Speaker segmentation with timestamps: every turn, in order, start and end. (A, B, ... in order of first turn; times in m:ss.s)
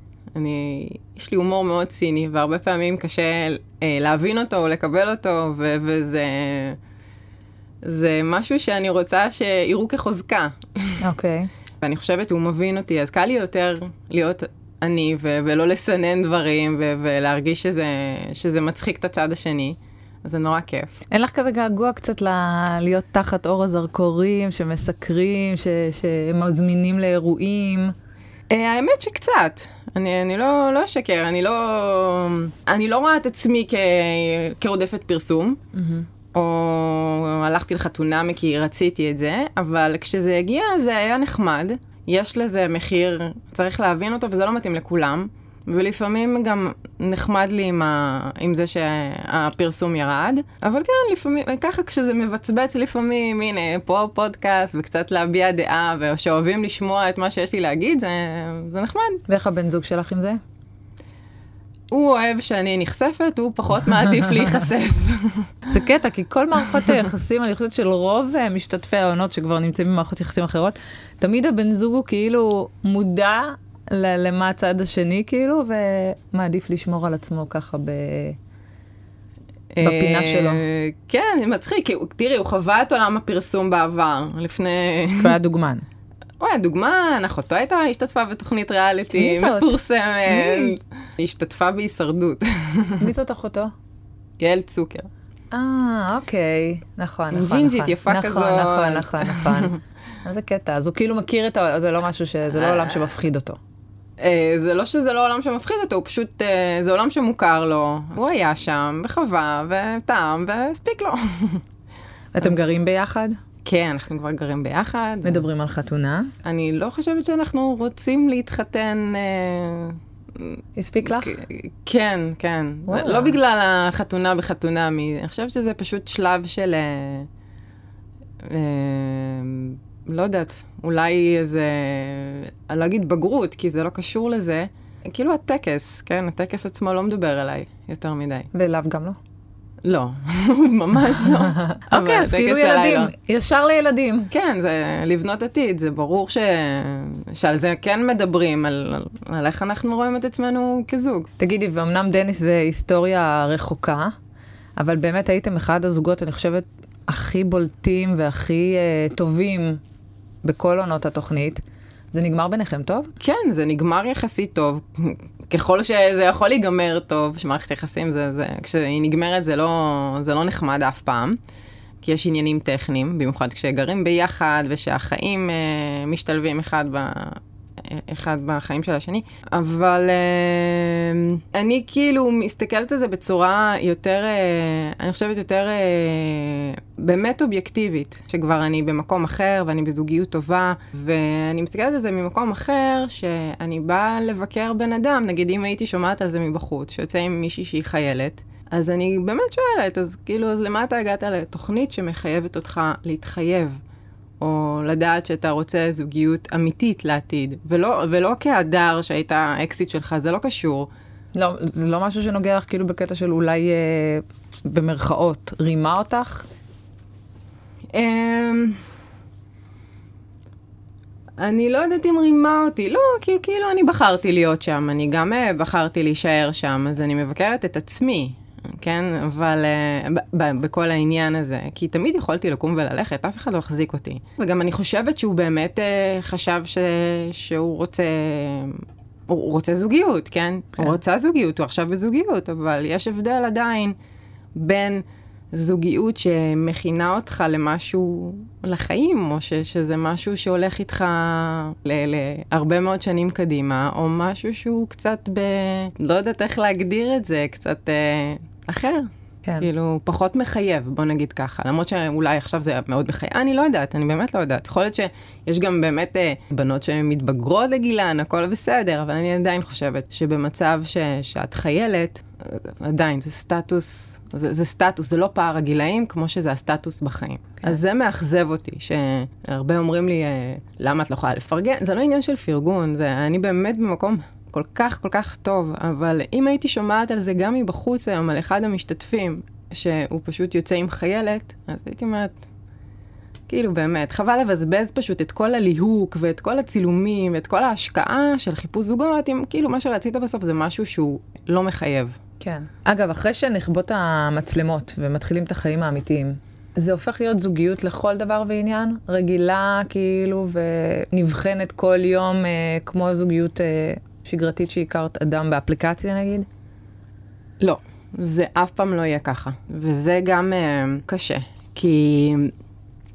0:00.3-0:06.8 A
0:07.8-0:11.0 A
0:11.0-0:11.5 B
0:11.8-0:20.9 A
0:21.1-0:27.9 B
0:28.5-0:35.6 A
0:35.7-0:36.1 B
0:36.3-0:59.2 A
0:59.3-1:00.4 B
1:01.9-1:05.7 A
1:05.7-1:18.4 B
1:19.7-1:25.4 A
1:19.8-1:20.6 B
1:25.2-1:25.8 B
1:26.4-1:33.1 A
1:29.1-1:29.8 B
1:30.3-1:30.7 B
1:33.0-1:33.7 B
1:34.4-1:35.1 A
1:35.5-1:43.6 B
1:37.3-1:39.8 A
1:42.5-1:43.1 A
1:44.2-1:51.6 A
1:52.3-1:53.4 B
1:53.6-1:55.4 A
1:55.2-1:56.3 B
1:56.4-2:07.3 A
2:00.8-2:01.4 B
2:02.9-2:03.4 B
2:08.4-2:18.5 A
2:18.5-2:19.2 B
2:19.8-2:23.1 A
2:21.6-2:24.3 B
2:24.3-2:31.3 A
2:31.4-2:34.1 B
2:34.8-2:39.8 B
2:40.4-2:43.1 B
2:43.2-2:51.4 A
2:52.0-3:23.8 A
3:24.4-3:30.9 A
3:31.3-3:36.5 B
3:37.9-3:38.8 A
3:41.4-4:03.9 A
4:04.6-4:52.4 A
4:53.5-5:02.2 A
5:02.4-5:16.5 B
5:17.6-5:22.5 A